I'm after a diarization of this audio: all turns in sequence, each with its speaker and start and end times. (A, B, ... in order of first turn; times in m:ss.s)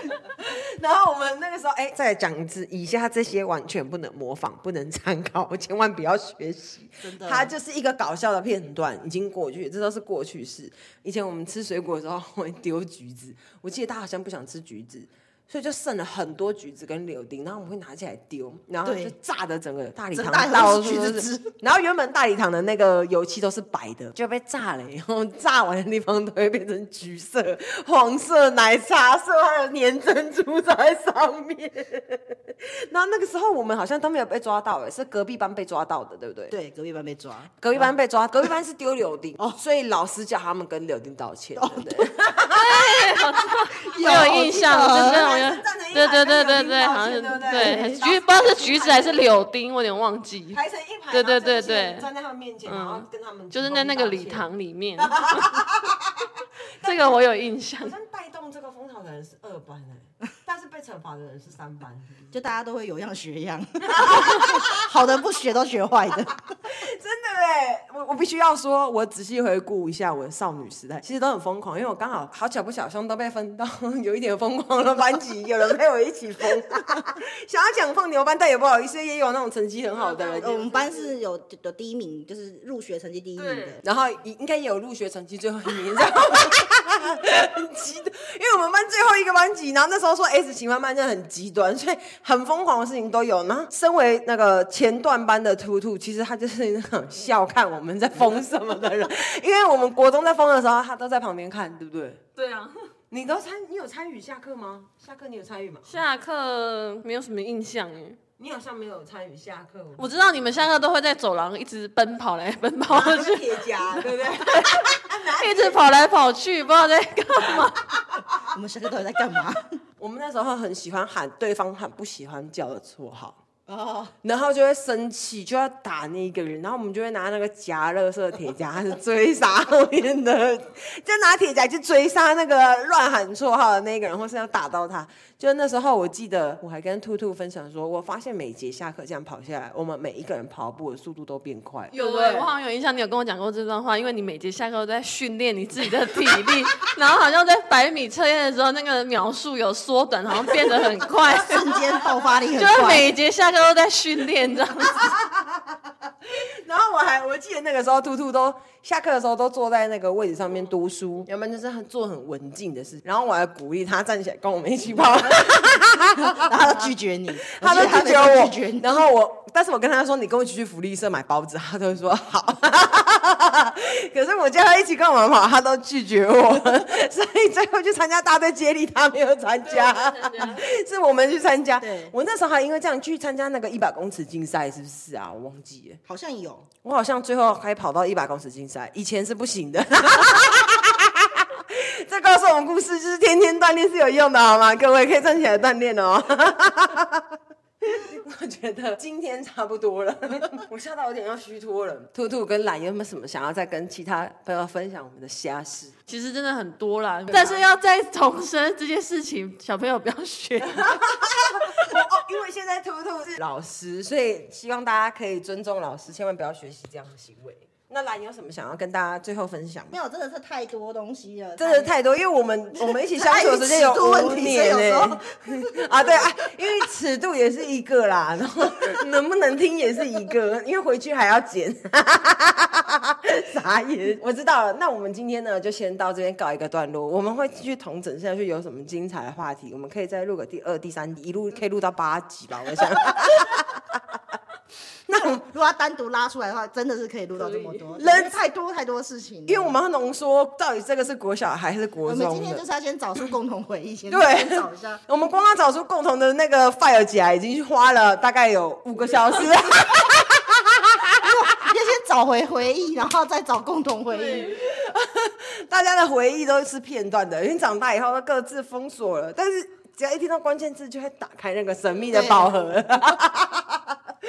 0:00.4-0:32.2 A
0:07.0-0:07.5 B
0:18.8-0:19.2 B
0:20.1-0:21.5 B
0:32.9-0:36.6 A
0:36.5-0:37.9 B
0:37.6-0:43.3 A
0:41.6-0:42.1 B
0:42.5-0:50.6 C
0:43.9-0:45.3 B
0:43.9-0:49.2 A
0:47.5-0:48.0 B
0:50.5-0:55.7 A
0:51.1-0:52.1 C
0:52.6-0:55.7 C
0:56.8-0:57.2 A
0:56.8-0:57.9 C
0:57.8-1:02.3 A
1:02.3-1:06.4 B
1:03.8-1:04.8 A
1:06.7-1:20.6 A
1:19.9-1:21.1 C
1:20.4-1:23.8 B
1:23.4-1:23.8 C
1:23.8-1:42.2 A
1:42.4-1:42.8 C
1:43.1-1:45.9 A
1:45.9-1:48.2 C
1:48.4-1:50.7 A
1:50.0-1:57.8 C
1:52.9-1:55.8 A
1:58.5-1:59.7 B
2:00.0-2:03.4 A
2:03.7-2:04.1 B
2:04.2-2:21.9 A
2:21.9-2:31.9 C
2:22.0-2:22.3 B
2:31.4-2:33.1 B
2:32.5-2:35.1 C
2:36.6-2:46.5 A
2:46.2-2:49.1 B
2:47.5-3:06.0 A
2:59.6-3:00.6 C
3:01.8-3:02.1 B
3:06.1-3:06.7 B
3:06.8-3:17.3 A
3:17.8-3:26.0 A
3:26.1-3:31.0 C
3:27.3-3:27.6 A
3:30.8-3:40.0 A
3:39.9-3:41.9 B
3:41.6-4:03.8 A
3:42.8-3:46.3 B
4:05.1-4:05.4 A
4:05.2-4:09.8 B
4:07.4-4:08.0 C
4:08.0-4:08.4 A
4:09.5-4:12.6 A
4:12.0-4:15.0 B
4:14.1-4:21.3 A
4:21.2-4:24.6 B
4:24.1-4:24.5 C
4:24.4-4:33.9 A
4:32.1-4:32.6 B